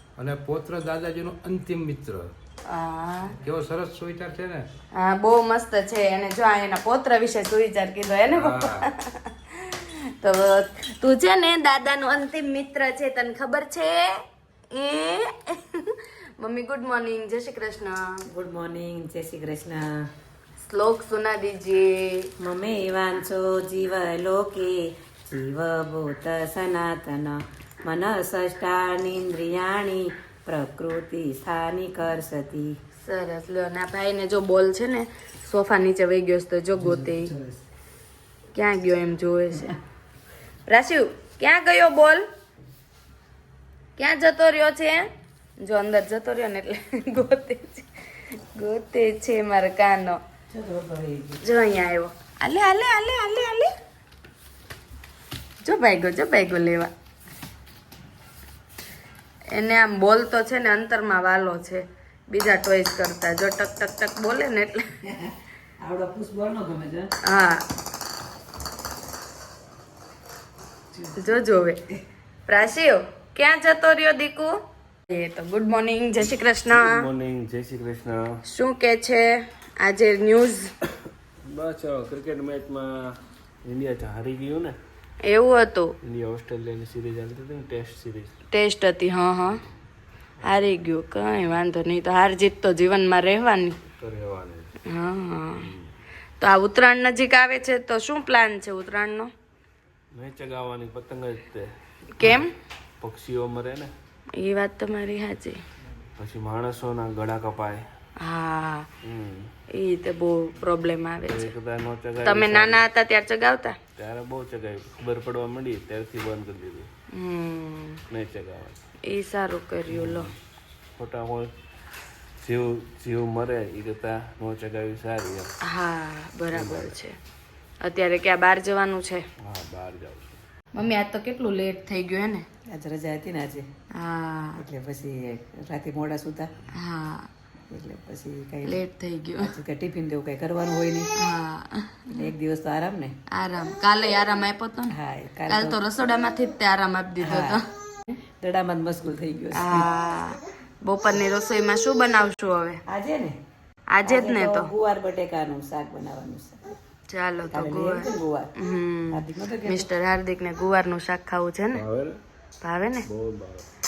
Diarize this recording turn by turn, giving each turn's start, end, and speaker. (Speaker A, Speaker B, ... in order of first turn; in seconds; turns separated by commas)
Speaker A: 0.2-2.3, Speaker B: 2.6-3.4, Speaker A: 3.4-4.7, Speaker B: 4.9-14.2, Speaker A: 8.3-8.9, Speaker B: 14.7-18.2, Speaker C: 18.3-19.9, Speaker B: 20.6-22.3, Speaker C: 22.4-32.8, Speaker B: 33.0-37.3, Speaker C: 36.8-37.6, Speaker B: 38.5-39.7, Speaker B: 40.7-42.2, Speaker B: 44.0-50.2, Speaker C: 50.5-51.4, Speaker B: 51.4-53.7, Speaker B: 55.6-56.9, Speaker B: 59.5-64.9, Speaker C: 65.1-67.1, Speaker B: 67.2-67.6, Speaker B: 71.2-71.8, Speaker B: 72.5-74.6, Speaker B: 75.1-77.0, Speaker D: 76.7-78.3, Speaker B: 78.5-80.7, Speaker D: 81.5-83.0, Speaker D: 83.6-84.8, Speaker B: 85.2-85.9, Speaker D: 86.0-88.3, Speaker B: 88.5-89.6, Speaker D: 90.4-90.7, Speaker B: 90.4-93.8, Speaker D: 94.0-94.7, Speaker B: 94.9-95.7, Speaker D: 95.6-95.9, Speaker B: 96.4-99.3, Speaker D: 100.1-101.7, Speaker B: 102.2-102.5, Speaker D: 103.0-103.9, Speaker B: 104.4-105.6, Speaker D: 106.2-107.8, Speaker B: 108.2-108.9, Speaker D: 109.0-109.5, Speaker B: 109.7-111.5, Speaker D: 111.2-112.8, Speaker B: 112.2-113.8, Speaker D: 114.0-116.9, Speaker B: 117.1-118.0, Speaker D: 118.1-118.8, Speaker B: 119.1-120.3, Speaker D: 119.9-120.3, Speaker D: 121.0-121.5, Speaker D: 122.4-125.5, Speaker B: 125.7-127.2, Speaker D: 126.5-126.9, Speaker B: 127.8-129.2, Speaker D: 129.4-130.4, Speaker B: 130.7-132.5, Speaker C: 132.7-133.7, Speaker B: 133.9-134.6, Speaker C: 134.6-136.5, Speaker B: 136.7-137.3, Speaker C: 137.7-138.8, Speaker B: 138.6-139.5, Speaker C: 139.4-141.1, Speaker B: 141.2-142.3, Speaker C: 142.2-143.2, Speaker B: 143.3-145.0, Speaker C: 144.9-145.8, Speaker B: 145.5-147.7, Speaker C: 147.2-147.6, Speaker C: 148.4-149.9, Speaker B: 149.6-152.8, Speaker C: 152.9-153.4, Speaker B: 153.9-154.7, Speaker C: 154.0-156.8, Speaker B: 157.1-161.8, Speaker C: 157.5-158.5, Speaker C: 159.1-159.9, Speaker D: 161.7-162.2, Speaker B: 162.6-163.1, Speaker D: 163.1-163.7